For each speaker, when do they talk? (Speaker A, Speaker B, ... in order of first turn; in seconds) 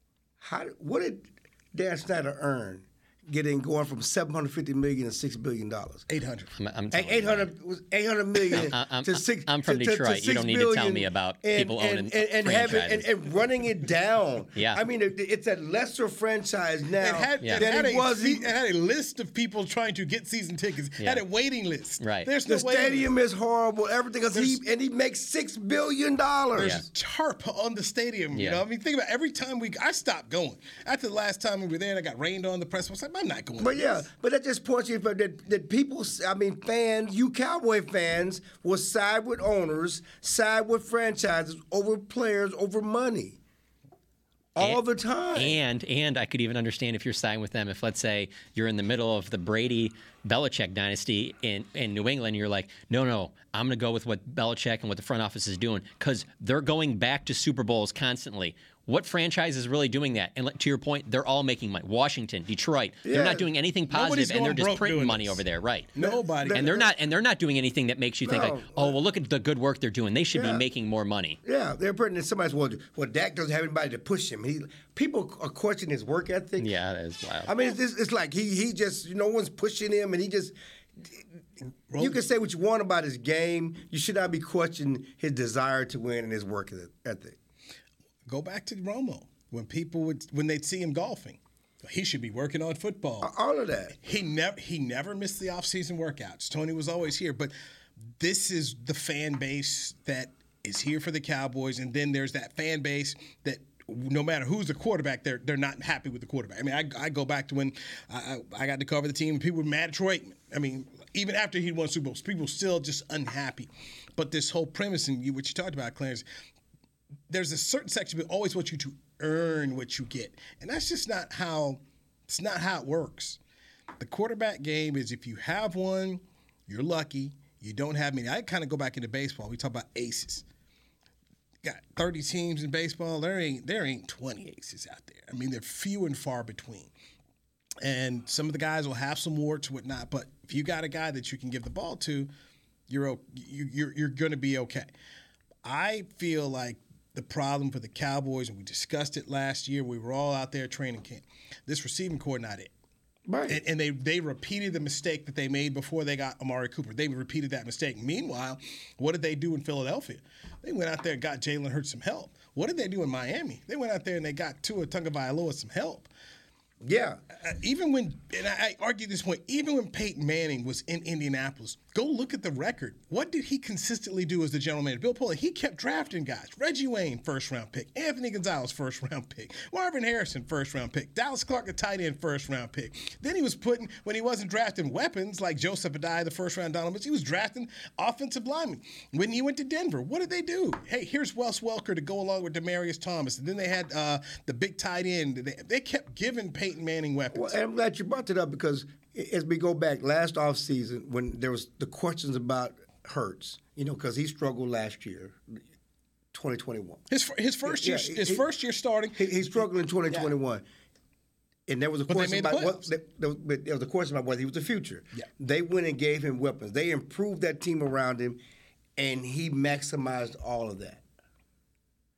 Speaker A: 0.4-6.0, 6.9-18.5, 22.4-26.8, 33.6-43.4, 44.5-45.6, 63.0-63.5, 66.0-66.9, 68.2-69.0, 70.3-70.6, 71.4-76.7, 77.4-81.2, 82.0-87.4, 93.2-94.0, 153.3-153.6, 166.8-167.2, 197.3-205.6, 206.3-207.0, 207.6-208.4, 209.2-210.6, 211.7-218.4, 219.0-221.0
Speaker B: 6.1-6.5, 17.0-23.1, 24.3-24.6, 26.5-34.0, 63.9-65.4, 65.9-66.8, 81.9-82.2, 88.3-93.3, 94.0-97.5, 98.2-116.2, 117.3-123.4, 124.0-130.4, 131.6-136.9, 137.8-142.3, 142.9-144.9, 145.6-152.7, 153.5-166.1, 167.3-197.6, 207.1-210.3, 212.1-212.9
Speaker C: 6.5-7.5, 8.5-13.1, 14.5-14.8, 17.4-17.7, 22.0-22.3, 26.6-26.8, 28.3-28.6, 45.3-65.9, 66.5-71.4, 76.6-77.5